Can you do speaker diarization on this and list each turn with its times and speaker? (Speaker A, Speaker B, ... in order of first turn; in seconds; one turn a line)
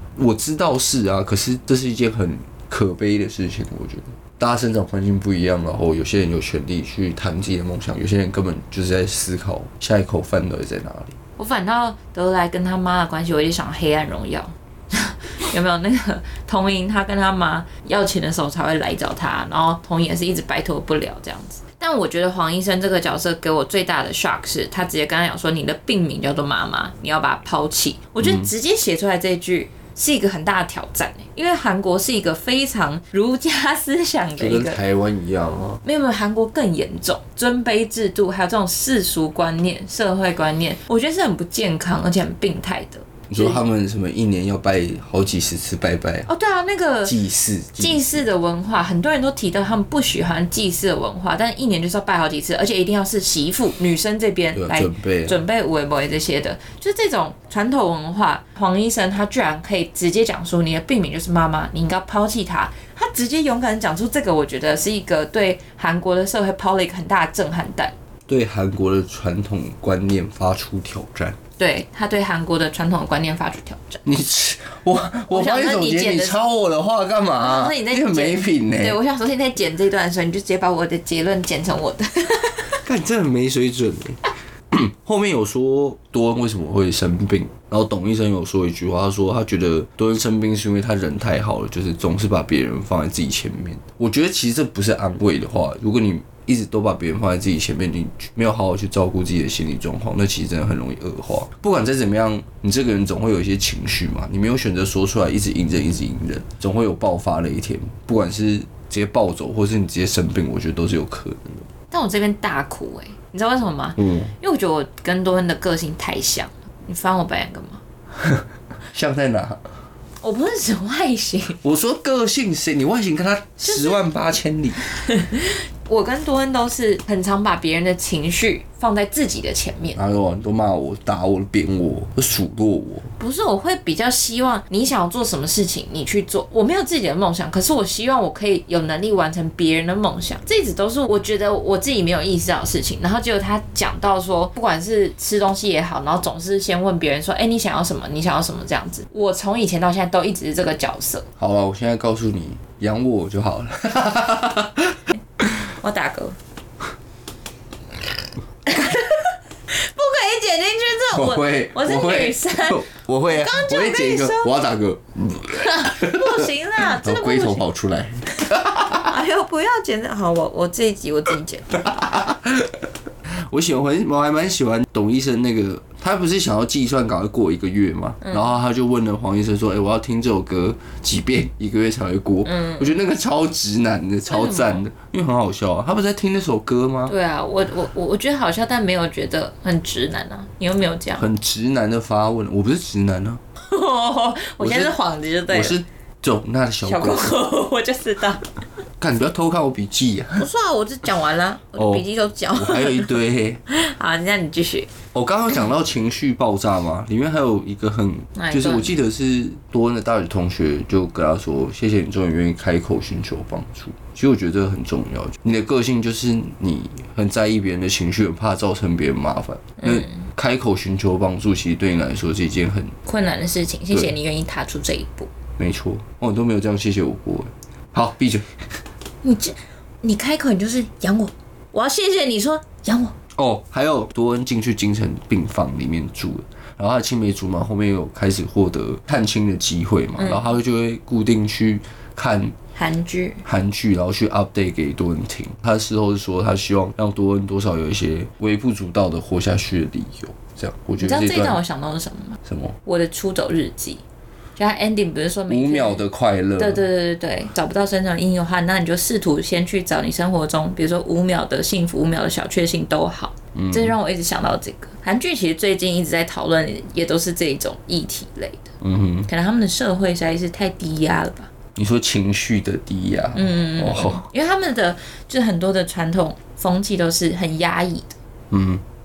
Speaker A: 0.2-11.2
Speaker B: 11.4-34.8
Speaker A: 28.2-28.5
Speaker A: 34.4-35.8
Speaker B: 35.8-43.6
Speaker A: 43.3-46.3
Speaker B: 46.3-47.1
Speaker A: 47.0-48.2
Speaker B: 47.8-67.9
Speaker A: 54.5-55.4
Speaker A: 68.3-71.4
Speaker B: 71.6-74.0
Speaker A: 74.0-79.0
Speaker B: 75.3-76.4
Speaker B: 77.4-82.8
Speaker A: 82.8-84.2
Speaker A: 84.7-111.7
Speaker B: 111.9-117.8
Speaker A: 114.0-114.3
Speaker A: 118.9-119.6
Speaker B: 120.2-121.6
Speaker A: 121.6-124.8
Speaker B: 123.7-124.0
Speaker B: 124.9-130.0
Speaker A: 130.0-133.1
Speaker B: 133.2-151.3
Speaker A: 151.4-155.0
Speaker B: 155.7-156.4
Speaker B: 158.7-164.5
Speaker A: 161.1-169.1
Speaker B: 165.6-167.7
Speaker B: 168.9-172.0
Speaker A: 171.8-172.8
Speaker A: 173.4-187.1
Speaker B: 178.2-178.5
Speaker B: 182.5-182.9
Speaker B: 184.3-184.8
Speaker B: 187.1-191.3
Speaker A: 191.2-193.4
Speaker B: 193.6-195.8
Speaker A: 194.6-194.9
Speaker A: 195.5-197.4
Speaker B: 196.8-198.4
Speaker A: 199.0-200.5
Speaker B: 200.4-204.9
Speaker A: 201.8-203.6
Speaker A: 205.1-223.0
Speaker B: 208.4-209.0
Speaker B: 219.8-220.1
Speaker B: 223.1-225.3
Speaker A: 225.6-228.6
Speaker B: 229.2-233.2
Speaker A: 233.4-242.6
Speaker B: 240.2-240.4
Speaker B: 242.8-243.4
Speaker A: 243.4-251.6
Speaker B: 251.0-254.0
Speaker A: 252.4-252.8
Speaker B: 254.6-256.1
Speaker A: 255.5-256.8
Speaker B: 256.6-268.7
Speaker A: 263.6-263.9
Speaker A: 268.8-269.3
Speaker B: 269.3-271.5
Speaker A: 271.8-274.2
Speaker B: 273.3-278.2
Speaker A: 278.5-278.8